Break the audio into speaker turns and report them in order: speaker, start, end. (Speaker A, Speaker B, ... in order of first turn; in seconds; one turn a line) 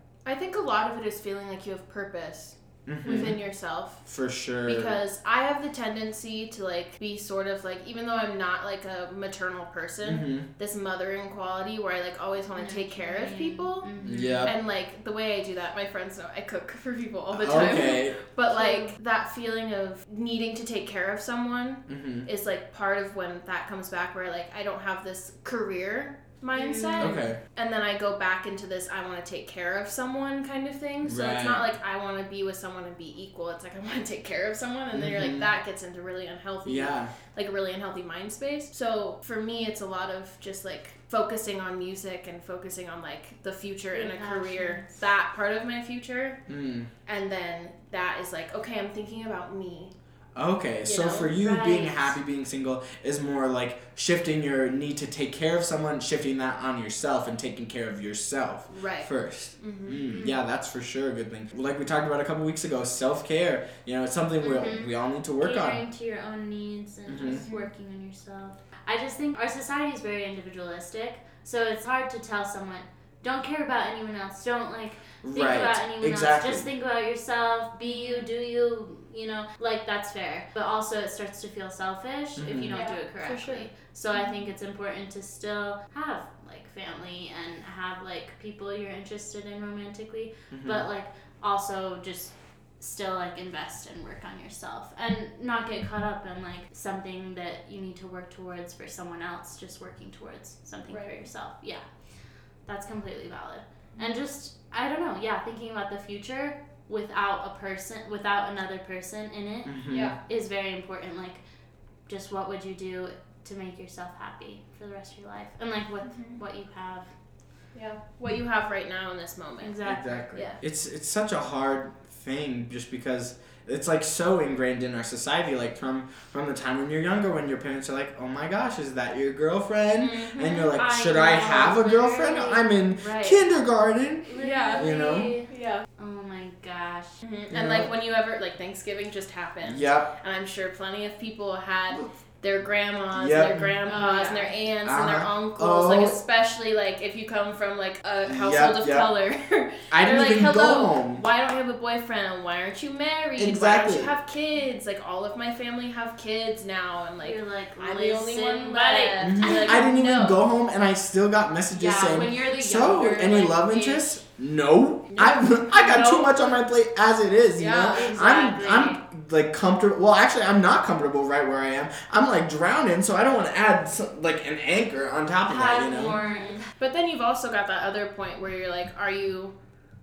Speaker A: 0.2-4.0
Speaker B: 2.9-3.4
Speaker B: 4.1-5.0
Speaker A: 4.6-46.4
Speaker B: 10.0-10.5
Speaker C: 12.6-14.5
Speaker B: 14.0-14.5
Speaker B: 17.3-18.2
Speaker C: 18.5-18.9
Speaker B: 21.9-22.2
Speaker C: 26.5-27.2
Speaker B: 27.0-27.4
Speaker B: 31.0-31.6
Speaker B: 34.9-35.5
Speaker B: 36.6-37.1
Speaker C: 43.9-44.9
Speaker B: 46.5-46.9
Speaker A: 47.0-49.9
Speaker B: 50.3-65.8
Speaker A: 50.8-51.4
Speaker C: 51.4-52.1
Speaker A: 58.7-60.0
Speaker C: 60.1-60.4
Speaker C: 64.4-101.9
Speaker B: 67.0-67.4
Speaker A: 67.2-67.7
Speaker B: 75.2-76.7
Speaker A: 77.8-78.3
Speaker B: 82.3-82.9
Speaker A: 82.7-84.4
Speaker B: 90.5-90.8
Speaker A: 100.9-101.2
Speaker C: 102.6-111.4
Speaker B: 109.6-110.2
Speaker A: 109.9-110.2
Speaker C: 112.1-117.1
Speaker A: 116.1-116.4
Speaker A: 117.7-119.8
Speaker C: 119.6-120.0
Speaker B: 119.8-135.3
Speaker A: 120.3-120.6
Speaker A: 130.0-130.8
Speaker C: 130.5-133.4
Speaker C: 134.2-137.2
Speaker A: 134.4-134.9
Speaker A: 135.5-135.8
Speaker A: 137.2-160.4
Speaker B: 137.5-137.9
Speaker B: 139.6-140.1
Speaker B: 143.1-143.7
Speaker C: 143.8-144.5
Speaker B: 144.8-146.2
Speaker B: 148.2-149.1
Speaker B: 149.9-151.2
Speaker B: 153.4-154.1
Speaker C: 157.2-159.9
Speaker B: 159.2-176.2
Speaker C: 161.7-164.2
Speaker A: 165.1-165.3
Speaker C: 165.7-166.6
Speaker A: 167.6-168.1
Speaker C: 167.9-169.0
Speaker C: 175.5-176.7
Speaker A: 176.1-179.5